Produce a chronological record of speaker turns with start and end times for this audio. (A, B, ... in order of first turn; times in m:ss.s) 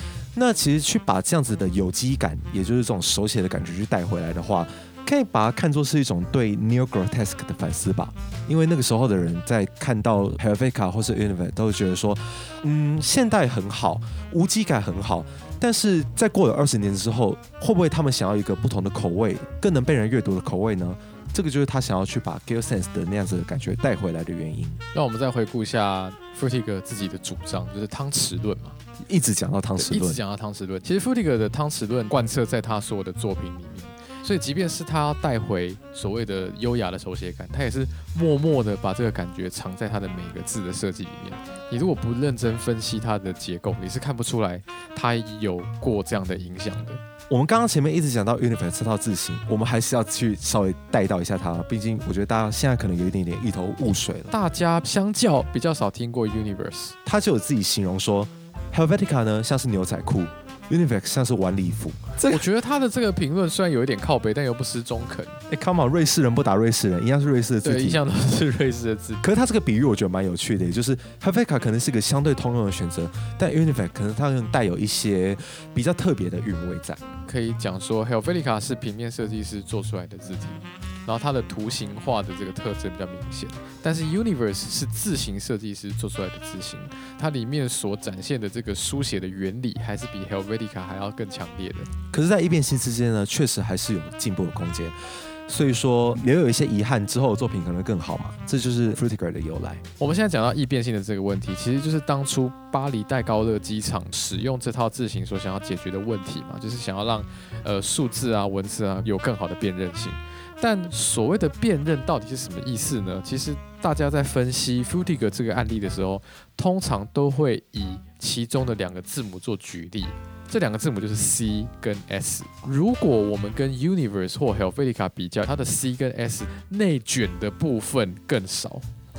0:00.3-0:24.8 A
0:24.9-0:28.8 B
0:29.0-0:30.2 A
0:29.8-0:47.0 B
0:47.3-0:54.3 A
0:54.3-0:57.0 B
0:57.0-1:02.4 A
1:02.2-1:05.4 B
1:05.5-1:08.0 A
1:07.6-1:09.2 B
1:09.2-1:17.0 A
1:17.3-1:31.9 B
1:32.1-1:35.0 A
1:35.5-1:39.8 A
1:40.0-2:08.9 B